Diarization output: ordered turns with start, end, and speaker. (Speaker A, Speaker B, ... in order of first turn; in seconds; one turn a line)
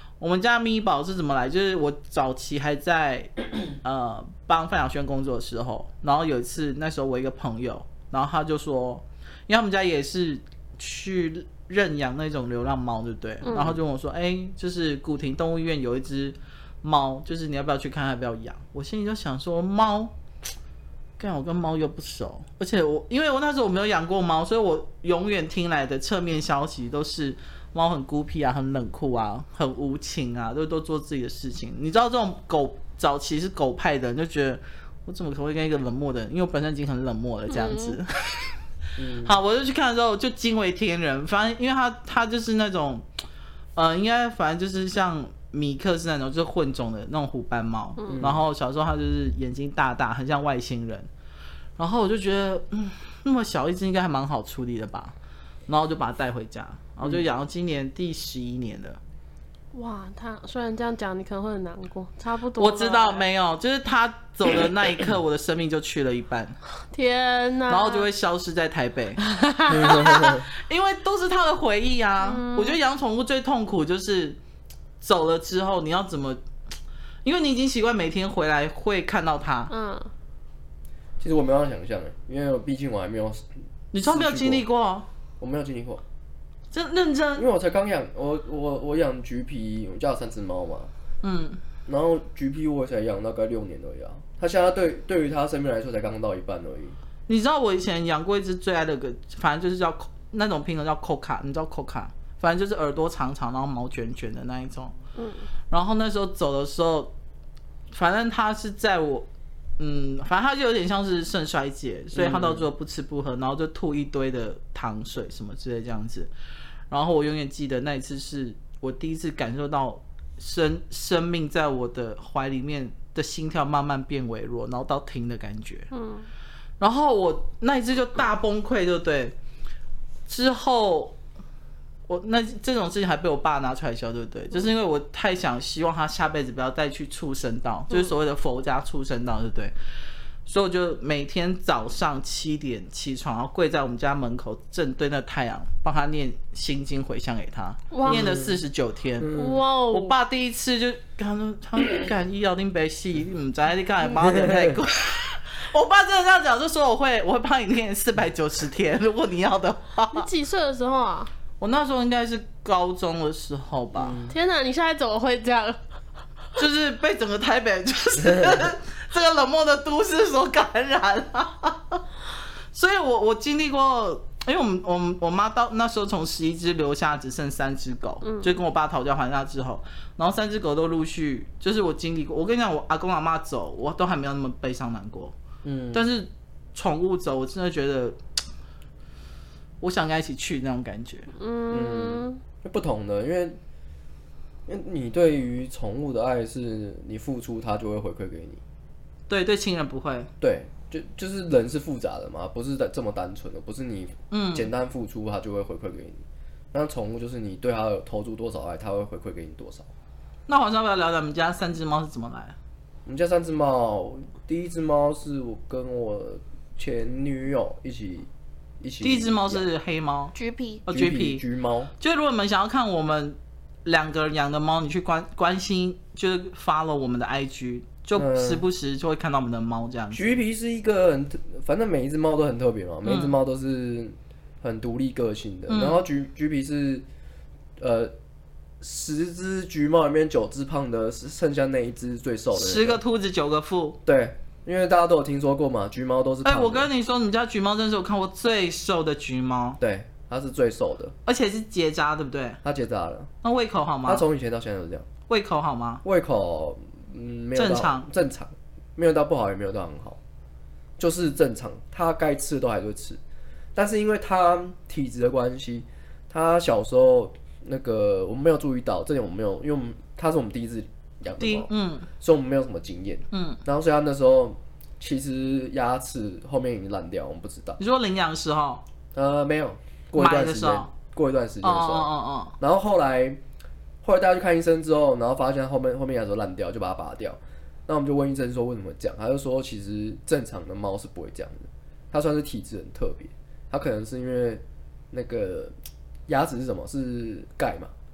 Speaker A: 0.2-20.1
Speaker B: 13.4-13.7
Speaker C: 13.5-13.8
Speaker A: 21.2-38.6
Speaker B: 37.5-38.0
Speaker C: 39.0-39.4
Speaker A: 39.2-43.0
Speaker A: 43.8-51.1
Speaker B: 48.0-48.2
Speaker C: 48.1-48.4
Speaker A: 51.8-55.1
Speaker A: 55.7-59.0
Speaker B: 59.7-63.2
Speaker A: 62.6-66.5
Speaker B: 66.9-68.1
Speaker A: 67.7-69.2
Speaker B: 69.3-70.1
Speaker C: 69.7-70.5
Speaker A: 69.8-74.4
Speaker B: 72.2-72.8
Speaker A: 75.0-76.4
Speaker A: 77.2-79.7
Speaker B: 79.7-80.1
Speaker C: 81.2-83.4
Speaker A: 83.9-85.0
Speaker C: 84.0-84.6
Speaker C: 85.4-86.0
Speaker A: 86.7-87.5
Speaker C: 87.3-90.9
Speaker A: 91.2-91.6
Speaker C: 91.8-96.9
Speaker A: 97.3-104.9
Speaker B: 105.2-105.4
Speaker A: 105.7-107.1
Speaker A: 107.9-109.3
Speaker A: 109.8-116.3
Speaker C: 112.1-112.7
Speaker A: 116.9-125.9
Speaker B: 125.9-126.3
Speaker A: 126.8-129.3
Speaker A: 130.3-131.2
Speaker A: 132.1-139.7
Speaker A: 140.4-149.4
Speaker B: 147.9-148.3
Speaker C: 148.1-148.6
Speaker C: 149.2-149.6
Speaker B: 149.3-150.1
Speaker A: 149.9-160.3
Speaker C: 154.2-154.8
Speaker B: 160.1-161.3
Speaker A: 161.6-164.2
Speaker C: 163.9-164.3
Speaker B: 164.3-165.8
Speaker A: 166.6-172.0
Speaker A: 172.7-185.3
Speaker B: 178.2-178.6
Speaker C: 185.6-186.1
Speaker A: 185.9-188.2
Speaker A: 189.8-191.3
Speaker B: 191.3-192.4
Speaker C: 191.7-193.6
Speaker C: 194.7-198.6
Speaker A: 199.3-200.3
Speaker C: 200.4-206.2
Speaker A: 204.3-204.7
Speaker C: 206.7-209.9
Speaker A: 210.5-212.5
Speaker C: 213.1-218.3
Speaker C: 218.8-219.7
Speaker A: 219.0-220.3
Speaker B: 220.3-220.8
Speaker A: 220.9-221.4
Speaker C: 220.9-221.9
Speaker A: 222.0-230.3
Speaker C: 228.1-228.6
Speaker C: 230.1-237.0
Speaker A: 233.0-233.3
Speaker A: 235.7-236.0
Speaker C: 237.8-238.1
Speaker C: 238.8-243.0
Speaker A: 242.5-244.0
Speaker C: 244.1-246.9
Speaker A: 246.4-249.8
Speaker C: 249.8-251.1
Speaker A: 251.2-252.6
Speaker C: 252.6-253.3
Speaker A: 253.4-254.2
Speaker C: 254.1-255.1
Speaker A: 255.3-256.0
Speaker C: 256.0-260.2
Speaker A: 257.6-258.1
Speaker C: 261.0-263.2
Speaker C: 263.7-277.8
Speaker A: 271.4-272.1
Speaker A: 273.3-273.6
Speaker A: 277.8-278.8
Speaker C: 279.1-283.4
Speaker A: 280.1-280.9
Speaker A: 281.6-282.5
Speaker C: 284.0-295.7
Speaker C: 296.3-297.9